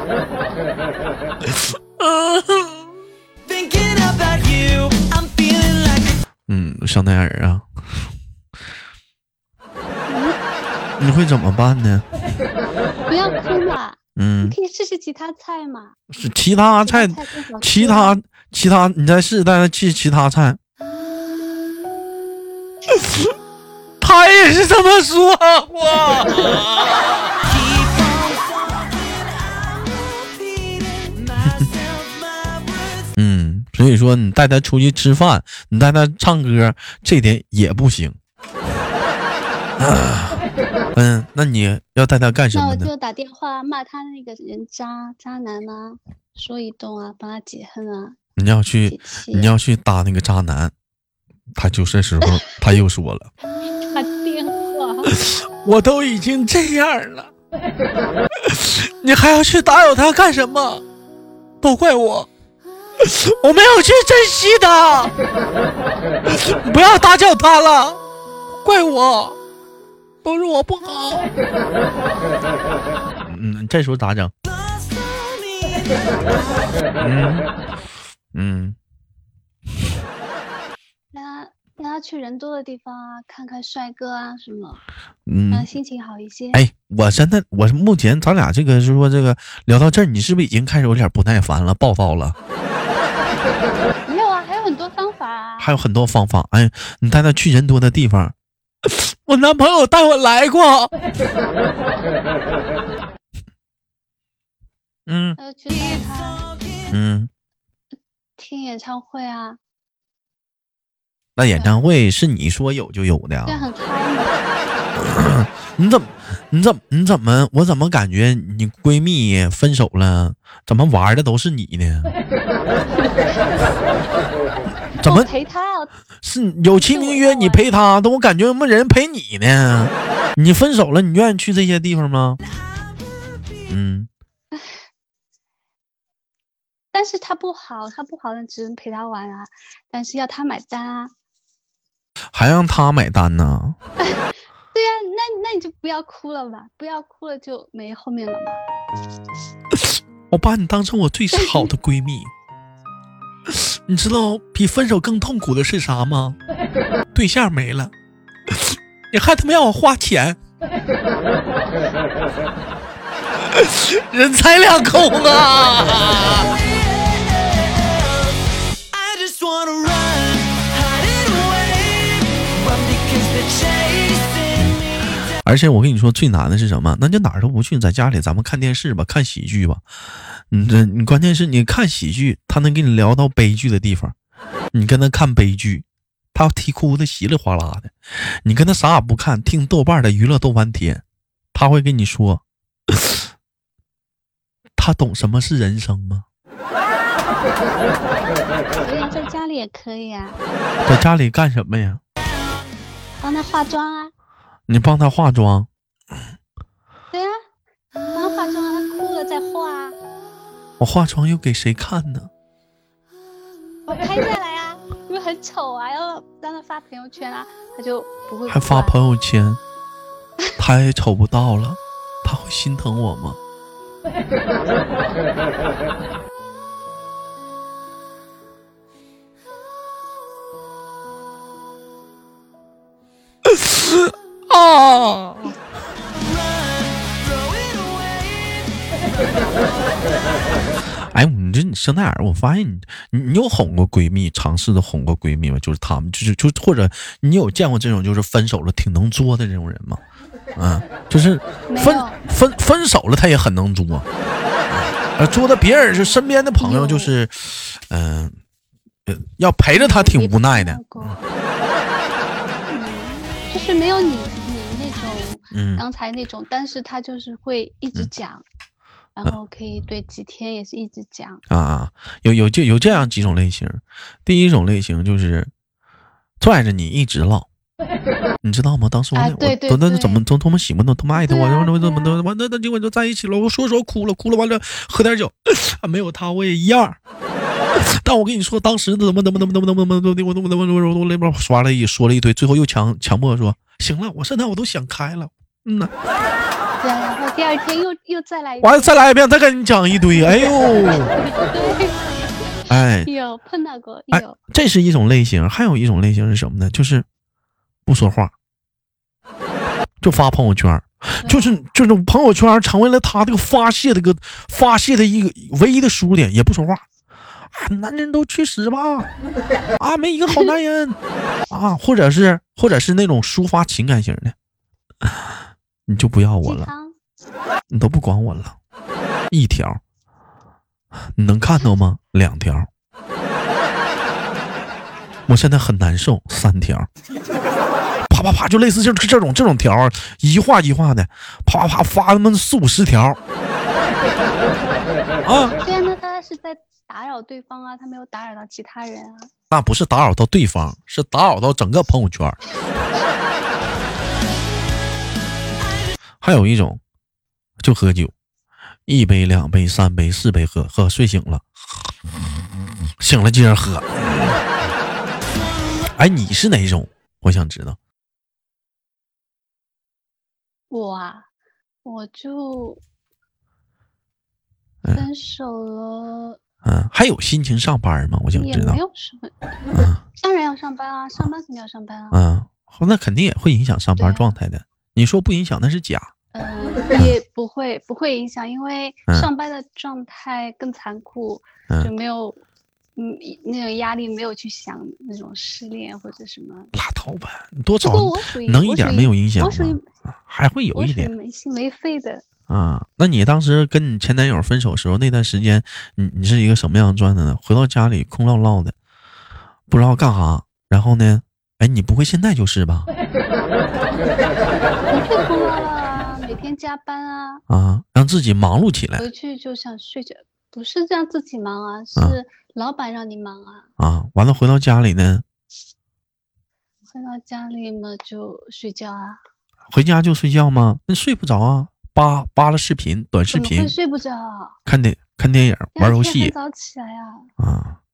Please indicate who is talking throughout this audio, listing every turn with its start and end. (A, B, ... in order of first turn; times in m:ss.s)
0:01.4-0:02.9 A
0:03.5-0:06.1 B
0:06.5-0:07.7 A
0:10.1-0:10.4 C
0:11.0-0:12.0 A
0:13.1-0:16.0 C
0:14.2-0:14.6 A
0:16.1-0:20.6 A
0:16.8-0:18.2 C
0:22.9-0:23.3 A
0:24.0-0:27.3 A
0:26.3-0:26.6 C
0:27.5-0:33.0 B
0:33.2-0:38.2 A
0:39.8-0:40.4 A
0:40.9-0:42.9 A
0:42.5-0:48.2 C
0:48.4-0:50.7 A
0:48.8-0:49.5 C
0:51.6-0:53.3 A
0:53.8-0:55.1 C
0:55.1-0:57.3 A
0:58.4-1:00.8 A
1:01.6-1:02.3 A
1:03.0-1:05.1 A
1:06.2-1:08.0 A
1:08.6-1:09.4 A
1:10.2-1:11.3 A
1:13.2-1:14.3 A
1:16.1-1:16.7 C
1:17.0-1:17.5 A
1:18.3-1:18.8 A
1:21.1-1:24.8 C
1:25.3-1:25.7 A
1:25.5-1:26.6 C
1:26.5-1:32.4 A
1:34.0-1:35.7 C
1:35.6-1:40.9 A
1:45.1-1:45.4 A
1:45.4-1:46.5 C
1:46.9-1:47.3 A
1:48.4-1:49.6 C
1:51.4-1:53.6 A
1:51.6-1:51.8 C
1:53.4-1:54.4 C
1:55.0-2:02.1 A
2:03.0-2:03.4 C
2:05.0-2:05.9 C
2:05.0-2:05.3 A
2:06.2-2:12.4 A
2:06.7-2:07.7 C
2:13.7-2:14.1 A
2:14.5-2:14.8 C
2:16.9-2:21.1 C
2:22.3-2:23.8 A
2:24.0-2:28.6 C
2:30.3-2:32.3 A
2:31.3-2:31.7 C
2:33.5-2:36.4 A
2:37.1-2:37.9 A
2:38.5-2:40.4 A
2:43.4-2:46.6 A
2:48.9-2:54.6 B
2:54.6-2:59.8 A
3:00.4-3:04.1 A
3:04.7-3:11.0 A
3:11.5-3:13.2 A
3:14.8-3:16.2 A
3:18.8-3:20.4 C
3:20.8-3:22.0 A
3:23.2-3:24.1 C
3:24.7-3:25.7 A
3:28.1-3:30.0 C
3:30.8-3:32.3 A
3:33.9-3:39.0 C
3:38.5-3:39.6 A
3:40.6-3:43.4 A
3:53.4-3:55.5 A
4:01.1-4:10.0 A
4:10.6-4:14.0 A
4:11.7-4:12.2 C
4:14.7-4:18.3 A
4:16.6-4:17.1 C
4:19.1-4:21.2 A
4:19.7-4:21.3 C
4:22.7-4:28.4 C
4:25.5-4:25.8 A
4:29.2-4:31.4 C
4:31.5-4:35.5 A
4:32.8-4:33.3 C
4:36.4-4:37.5 A
4:38.4-4:47.0 A
4:39.1-4:40.2 C
4:41.2-4:42.2 C
4:47.7-4:55.9 A
4:56.8-4:59.0 C
4:58.6-5:01.1 A
5:00.3-5:04.4 C
5:02.7-5:03.1 A
5:04.1-5:07.0 A
5:07.8-5:08.3 A
5:10.0-5:16.8 A
5:11.2-5:11.6 C
5:17.5-5:19.1 A
5:19.8-5:21.0 A
5:21.5-5:24.3 A
5:25.9-5:26.7 A
5:26.4-5:26.9 C
5:27.7-5:28.6 A
5:29.3-5:29.8 A
5:31.2-5:32.7 A
5:35.3-5:36.9 A
5:38.1-5:43.2 A
5:45.2-5:45.6 A
5:45.6-5:49.3 C
5:49.5-5:52.4 A
5:56.2-5:56.8 A
5:57.6-5:58.1 A
5:58.9-6:01.4 A
6:03.0-6:04.4 A
6:05.9-6:07.8 A
6:10.7-6:11.3 C
6:11.8-6:12.8 C
6:14.9-6:16.4 C
6:16.6-6:18.8 A
6:18.3-6:19.3 C
6:19.7-6:20.0 A
6:20.2-6:22.2 C
6:22.1-6:26.1 A
6:24.0-6:24.4 C
6:26.3-6:32.4 C
6:33.0-6:36.7 C
6:36.7-6:41.1 A
6:37.8-6:39.8 C
6:40.7-6:42.2 C
6:42.5-6:48.7 A
6:49.7-6:52.9 A
6:54.9-6:57.4 C
6:57.5-6:59.1 A
6:59.0-7:03.7 C
7:03.8-7:05.2 A
7:06.9-7:09.2 C
7:09.7-7:13.7 A
7:13.3-7:14.6 C
7:14.6-7:16.3 A
7:15.8-7:17.3 C
7:17.4-7:17.8 A